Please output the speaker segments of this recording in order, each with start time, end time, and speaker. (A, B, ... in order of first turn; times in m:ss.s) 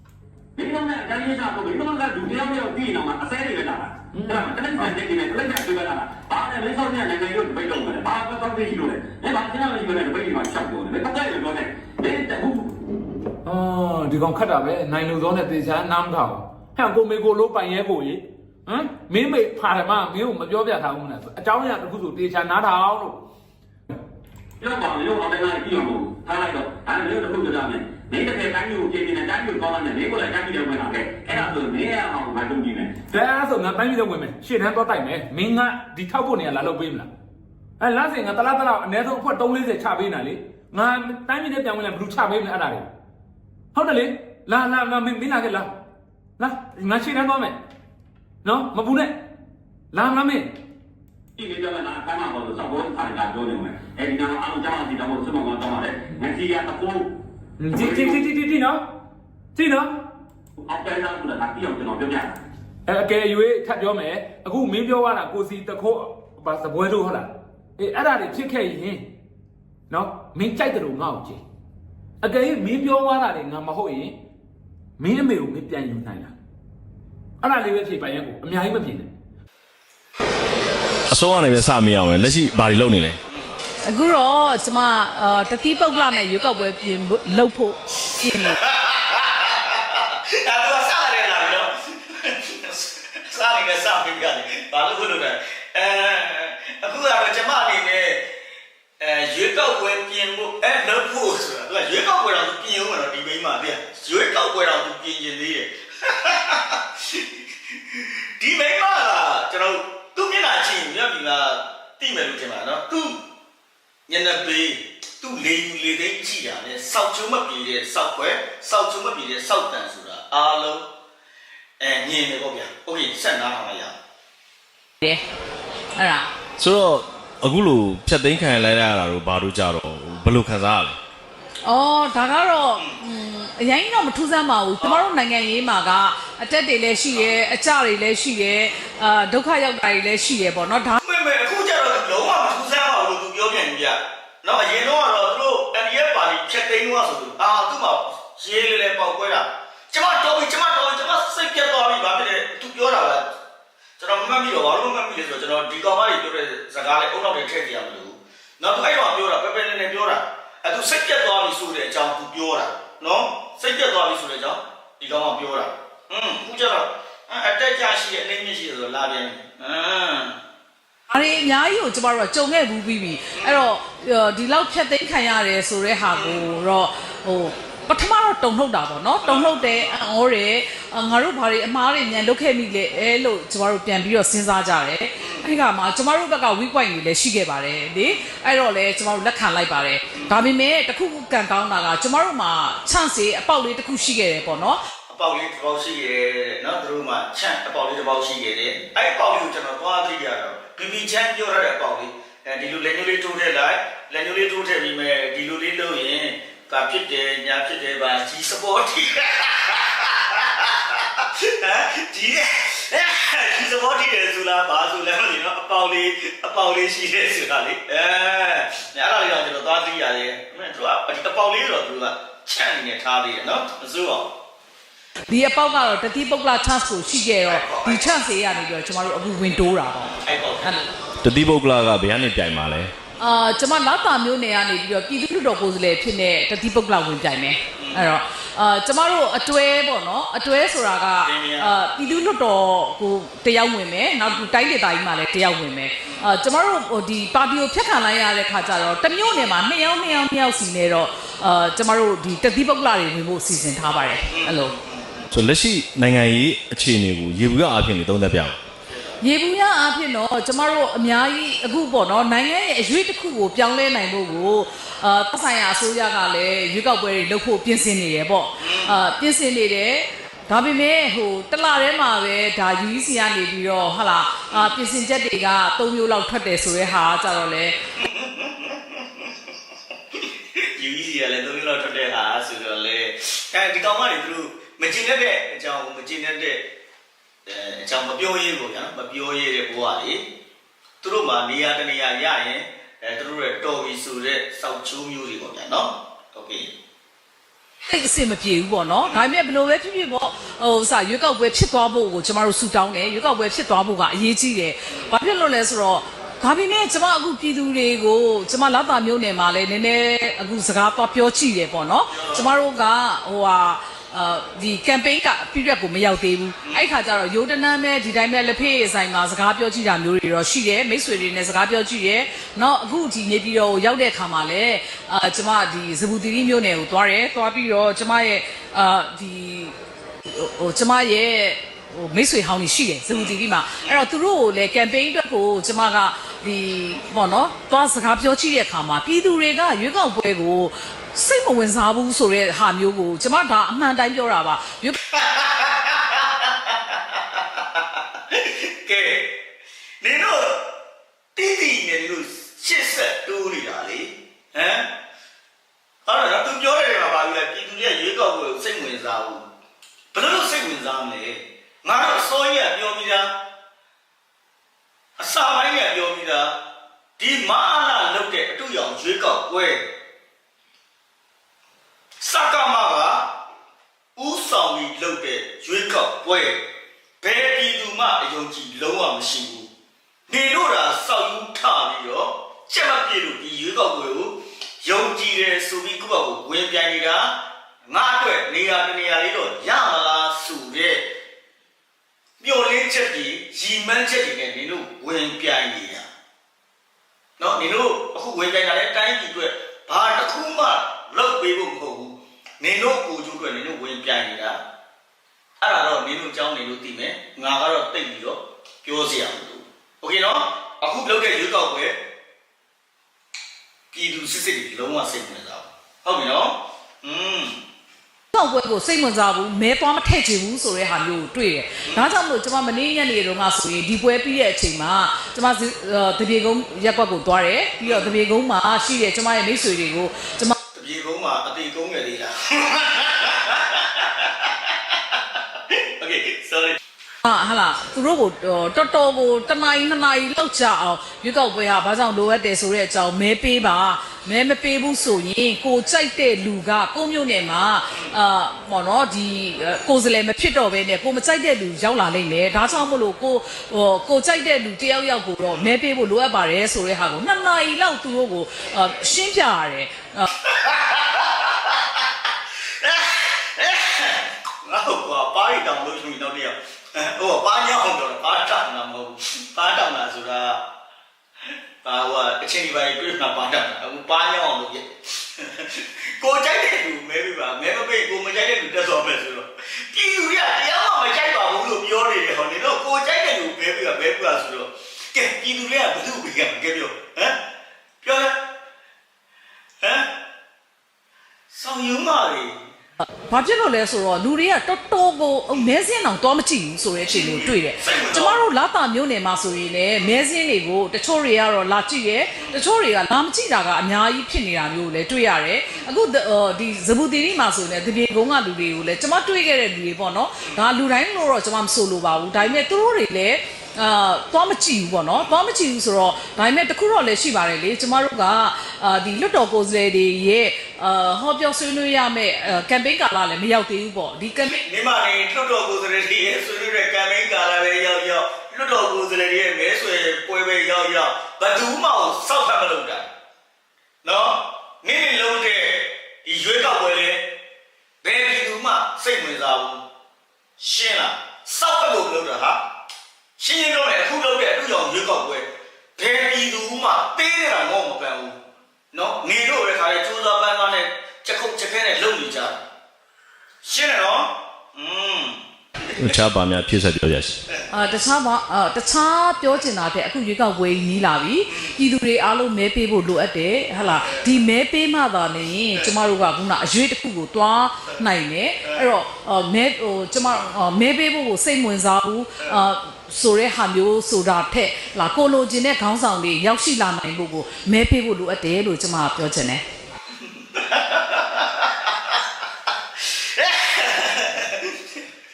0:00.6-0:12.8 A
0:04.1-0:04.9 B
0:13.4-0:23.2 B
0:24.6-0:32.9 A
0:33.1-0:37.1 B
0:37.8-0:42.9 B
0:43.7-0:45.7 B
0:46.4-0:47.6 B
0:48.4-0:49.1 B
0:49.9-0:50.5 B
0:51.4-0:57.1 A
0:57.6-0:58.8 B
0:57.8-0:58.2 A
0:59.6-1:00.0 B
1:00.6-1:02.3 A
1:02.9-1:09.0 B
1:09.9-1:11.4 B
1:12.2-1:14.2 B
1:15.0-1:16.4 B
1:17.4-1:19.1 B
1:21.1-1:23.2 C
1:23.9-1:28.6 D
1:28.3-1:38.2 E
1:39.0-1:53.2 E
1:54.1-2:00.8 E
2:01.8-2:03.9 E
2:06.0-2:06.3 D
2:06.6-2:11.0 C
2:11.7-2:21.0 D
2:21.0-2:33.3 E
2:34.0-2:50.4 E
2:51.1-3:14.8 D
2:53.4-2:53.7 E
2:56.2-2:56.4 E
2:59.2-3:00.0 E
3:05.2-3:05.5 E
3:10.1-3:10.4 E
3:15.1-3:44.3 E
3:45.3-3:50.8 D
3:47.4-3:48.3 E
3:50.1-3:50.9 E
3:51.2-3:52.9 C
3:53.2-4:14.8 D
3:57.8-3:58.2 E
4:01.2-4:01.7 E
4:14.3-4:15.3 E
4:15.3-4:18.6 C
4:18.9-4:19.2 E
4:19.2-4:37.8 D
4:28.6-4:29.0 E
4:38.0-4:39.6 E
4:40.1-4:46.6 E
4:47.5-4:50.2 E
4:51.0-4:56.7 E
4:57.9-5:29.7 D
5:12.1-5:12.6 E
5:16.6-5:16.9 E
5:30.3-5:45.0 D
5:33.1-5:34.0 E
5:45.1-5:49.3 E
5:50.0-5:50.6 E
5:51.4-5:54.9 E
5:56.1-5:59.4 E
6:00.1-6:03.3 E
6:05.2-6:06.6 E
6:07.2-6:09.8 E
6:12.2-6:13.3 E
6:14.2-6:16.6 E
6:17.2-6:19.7 E
6:20.3-6:31.0 E
6:32.4-6:36.1 E
6:37.4-6:44.6 E
6:45.6-6:52.0 E
6:53.9-6:57.6 E
6:58.3-7:10.6 D
7:07.8-7:08.2 E
7:10.7-7:16.8 E
7:17.2-7:40.3 D
7:40.4-7:50.6 E
7:51.8-8:07.4 E
8:08.0-8:08.4 E
8:09.8-8:10.1 E
8:11.5-8:12.6 E
8:13.3-8:44.6 D
8:17.1-8:18.4 E
8:44.4-8:53.1 E
8:54.0-8:57.2 E
8:58.0-8:59.8 E
9:00.6-9:02.6 E
9:03.4-9:08.4 E
9:08.9-9:12.6 E
9:13.6-9:16.1 E
9:16.0-9:17.4 C
9:17.7-9:39.6 D
9:21.5-9:21.8 E
9:23.9-9:24.3 E
9:40.1-9:45.0 E